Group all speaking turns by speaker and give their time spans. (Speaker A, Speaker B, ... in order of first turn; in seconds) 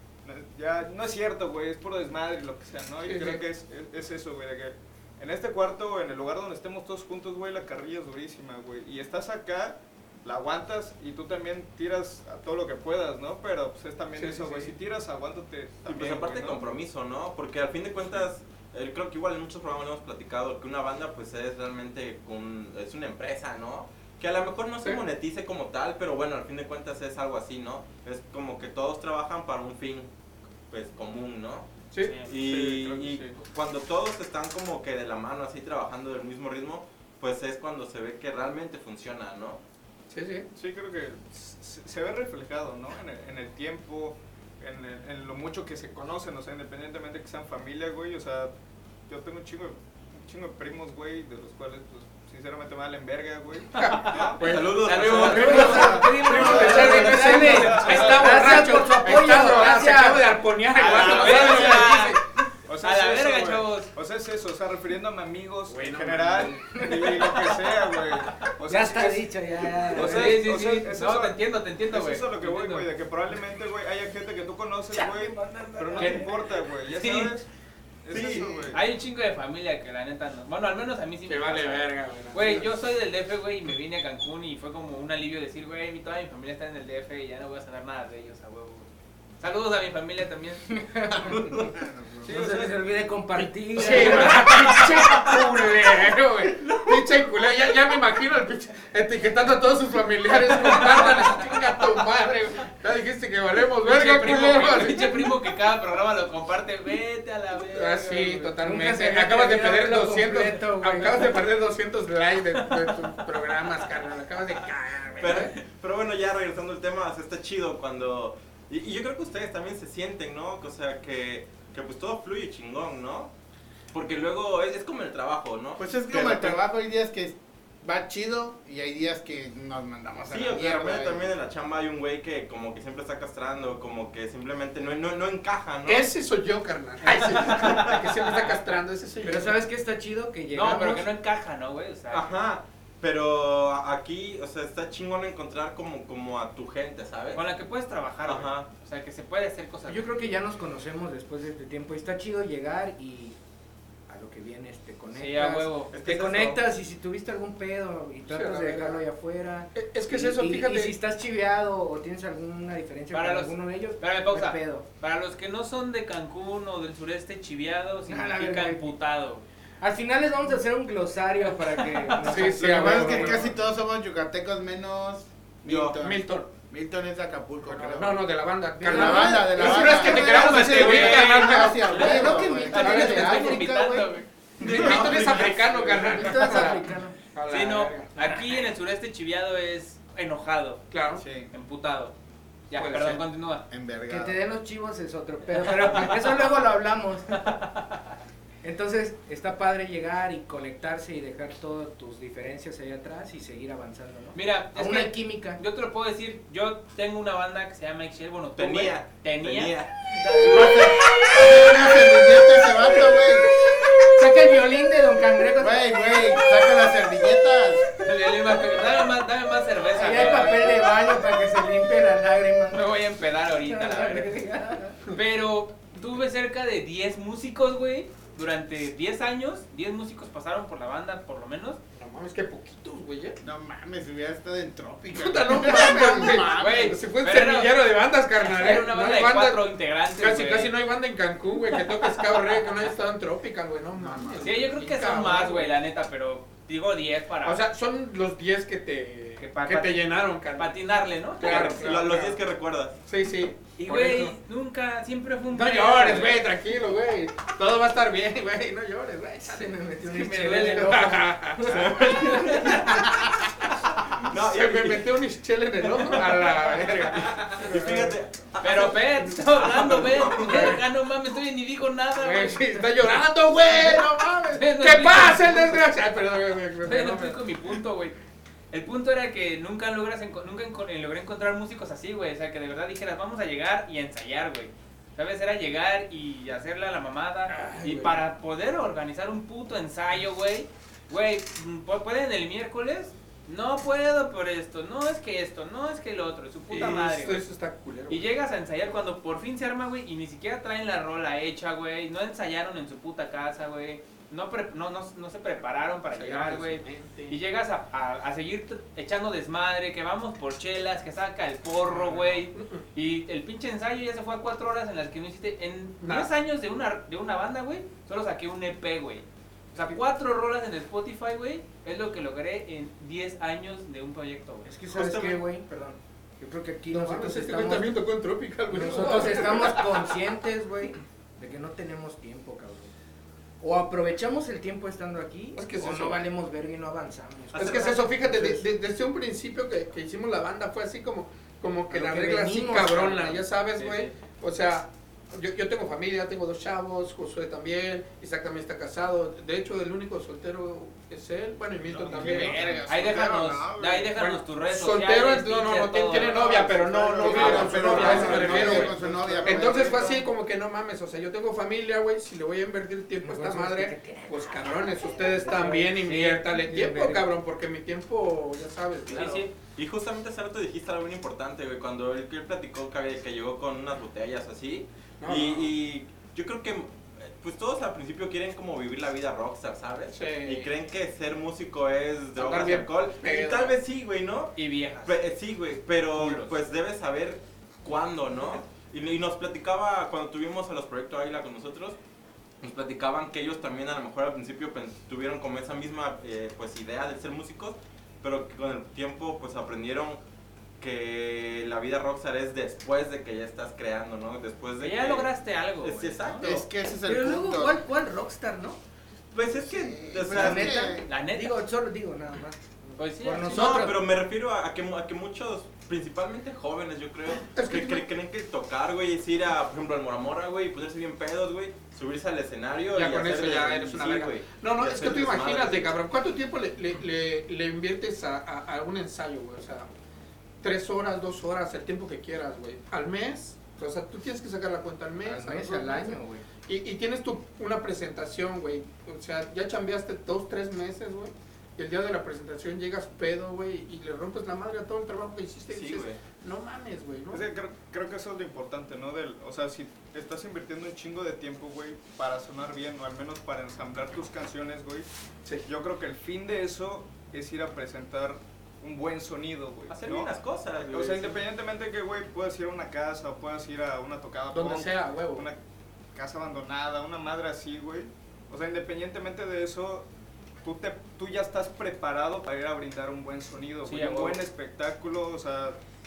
Speaker A: 0.2-16.8, 32.3-33.4, 40.5-48.5, 49.1-54.5, 55.5-58.8, 60.7-62.1, 62.6-77.5, 78.0-78.8, 352.1-354.1, 356.1-360.2, 447.3-455.1, 455.6-465.6, 466.1-470.1, 470.6-475.8
Speaker B: 3.0-3.4, 14.2-14.7, 40.1-40.5, 53.8-62.2, 65.7-66.6, 81.3-82.7, 93.7-105.3, 107.7-115.5, 135.8-139.6, 158.3-159.0, 159.7-160.9, 172.2-173.5, 176.0-176.5, 177.7-183.6, 184.6-188.1, 190.9-191.2, 192.7-193.2, 231.9-233.4, 235.1-245.7, 247.4-250.8, 251.4-252.4, 253.1-254.3, 255.5-259.8, 260.6-263.3, 264.2-268.1, 270.4-270.8, 272.2-277.4, 287.5-288.2, 296.7-298.2, 306.1-307.4, 311.9-312.8, 316.0-316.3, 326.9-330.1, 335.5-336.2, 337.5-352.6, 354.1-369.4, 375.2-375.7, 380.1-380.7, 382.4-383.8, 417.4-418.1, 422.9-429.9, 430.6-447.4, 464.5-465.4
Speaker C: 15.8-30.1, 30.7-31.7, 32.2-39.6, 54.3-56.1, 78.2-78.6, 115.2-123.3, 123.9-126.6, 130.3-136.1, 142.1-147.4, 148.2-148.7, 155.9-156.6, 175.6-176.0, 184.6-185.8, 208.6-210.0, 251.4-253.0, 261.7-263.2, 264.1-265.1, 265.9-270.8, 324.9-325.4, 351.9-352.8, 369.6-384.5, 385.0-392.0, 392.6-400.2, 400.8-406.7, 409.3-410.9, 413.4-425.9, 445.7-446.2, 459.9-461.4
Speaker D: 32.0-32.3, 54.8-57.0, 60.8-62.2, 62.8-63.9, 69.9-72.9, 76.0-76.2, 76.9-77.3, 78.7-90.6, 92.3-92.7, 93.9-94.3, 103.8-108.5, 137.1-137.9, 140.5-142.3, 147.3-150.1, 155.1-156.6, 163.1-169.4, 171.6-172.3, 179.5-184.3, 187.5-190.8, 191.5-192.1, 192.7-193.7, 195.5-196.4, 197.3-198.1, 204.3-209.7, 218.0-220.8, 222.7-224.3, 225.1-231.8, 236.6-237.8, 238.3-240.7, 241.7-242.6, 244.4-247.6, 249.4-251.9, 253.8-256.4, 260.1-261.0, 262.2-262.7, 268.6-272.7, 274.5-275.8, 276.8-278.1, 278.7-297.4, 298.1-324.7, 343.8-344.1, 352.1-356.4, 357.2-358.9, 366.0-366.4, 369.1-369.5, 384.6-385.2, 386.1-386.6, 404.8-406.5, 411.1-411.6, 413.0-413.8, 473.8-474.4
Speaker E: 55.2-60.3, 66.7-67.2, 68.7-70.5, 74.9-76.3, 90.7-91.6, 92.2-95.3, 108.6-111.4, 139.2-141.1, 149.9-153.4, 154.1-164.8, 168.1-168.9, 169.8-173.4, 178.8-179.6, 181.9-184.1, 185.9-187.2, 194.1-197.5, 198.6-205.6, 214.0-216.4, 219.9-222.9, 223.6-225.0, 259.4-262.1, 324.6-327.9, 328.7-332.9, 333.6-338.6, 341.9-343.4, 363.2-367.3, 407.0-408.8, 410.2-414.1, 435.2-436.4
Speaker F: 91.5-92.4, 125.8-131.3, 172.6-178.2, 178.8-183.5, 184.6-185.9, 191.2-191.5, 193.7-194.4, 210.2-213.5, 215.5-217.8, 233.4-237.0, 243.9-244.5, 357.2-360.2, 406.4-407.8, 409.5-411.1